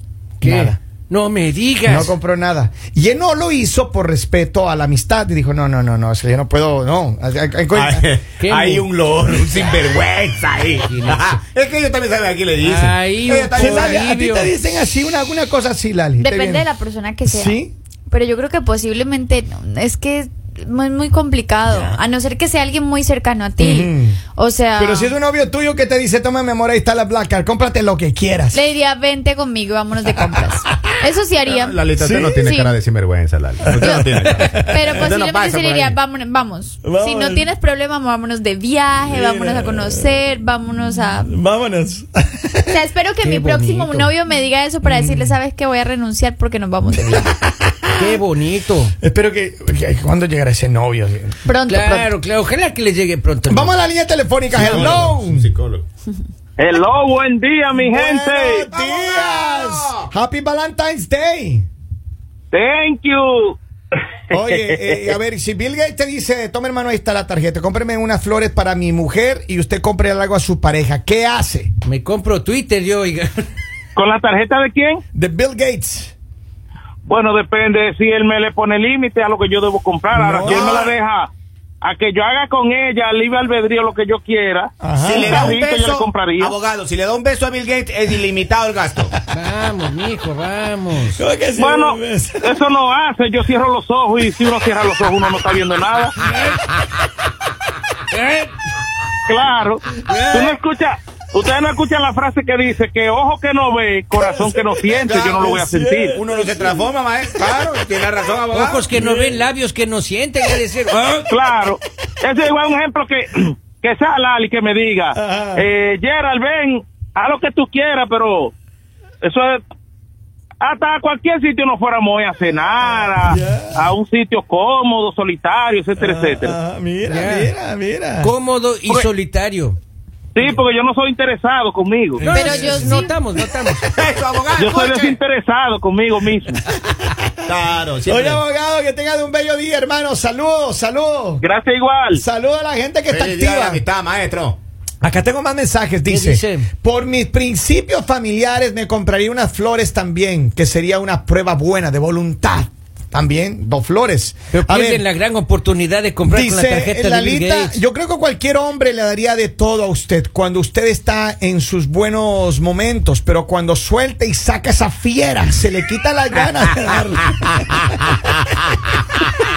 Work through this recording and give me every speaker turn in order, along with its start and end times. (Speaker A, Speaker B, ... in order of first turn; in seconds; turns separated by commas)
Speaker A: 0.4-0.8, Speaker B: 0.4-2.1, Speaker A: 1.8-8.1, Speaker C: 7.7-14.1, Speaker B: 8.4-8.9, Speaker B: 10.8-11.3, Speaker B: 12.6-14.5, Speaker A: 13.5-16.6, Speaker D: 16.2-25.1, Speaker A: 17.2-17.7, Speaker A: 23.6-24.2, Speaker A: 24.8-28.6, Speaker D: 28.5-31.8, Speaker C: 31.4-36.0, Speaker A: 32.0-32.4, Speaker D: 32.3-32.7, Speaker A: 33.6-35.0, Speaker D: 33.8-41.3, Speaker A: 36.8-37.5, Speaker A: 39.0-40.3, Speaker A: 41.2-42.7, Speaker D: 42.6-47.3, Speaker B: 43.2-44.1, Speaker A: 44.8-45.3, Speaker A: 47.8-48.2, Speaker B: 47.9-48.9, Speaker A: 49.0-51.4, Speaker D: 51.4-52.1, Speaker B: 51.7-53.7, Speaker A: 53.5-55.5, Speaker C: 54.5-55.9, Speaker E: 56.6-58.6, Speaker A: 57.7-61.7, Speaker C: 58.7-60.1, Speaker E: 62.5-63.6, Speaker A: 64.3-71.7, Speaker E: 64.7-65.0, Speaker B: 71.8-73.5, Speaker E: 74.0-75.0, Speaker A: 75.1-76.1, Speaker E: 77.1-81.3, Speaker A: 80.1-80.9, Speaker C: 80.4-80.9, Speaker E: 81.8-84.7, Speaker A: 84.8-85.5, Speaker C: 85.0-89.1, Speaker E: 85.2-86.5, Speaker B: 89.3-91.2, Speaker A: 91.2-92.6, Speaker E: 91.5-96.1, Speaker B: 98.1-98.5, Speaker E: 99.3-106.1, Speaker B: 100.0-100.5, Speaker A: 104.4-106.9, Speaker C: 105.1-105.3, Speaker C: 106.1-108.9, Speaker A: 107.4-107.7, Speaker B: 108.5-111.3, Speaker A: 108.9-109.5, Speaker E: 111.3-118.5, Speaker A: 115.1-115.7, Speaker E: 119.2-119.6, Speaker E: 120.6-126.5, Speaker A: 123.1-123.9, Speaker A: 126.0-128.3, Speaker B: 127.1-127.5, Speaker B: 128.2-129.8, Speaker E: 130.3-132.2, Speaker A: 132.2-133.1, Speaker B: 132.2-133.8, Speaker D: 132.3-133.1, Speaker C: 133.9-135.2, Speaker E: 134.5-136.6, Speaker C: 137.4-138.4, Speaker A: 138.1-141.4, Speaker E: 141.4-142.2, Speaker A: 142.1-143.8, Speaker C: 143.1-144.6, Speaker A: 145.0-155.0, Speaker B: 146.1-146.7, Speaker B: 154.5-157.8, Speaker A: 156.2-167.9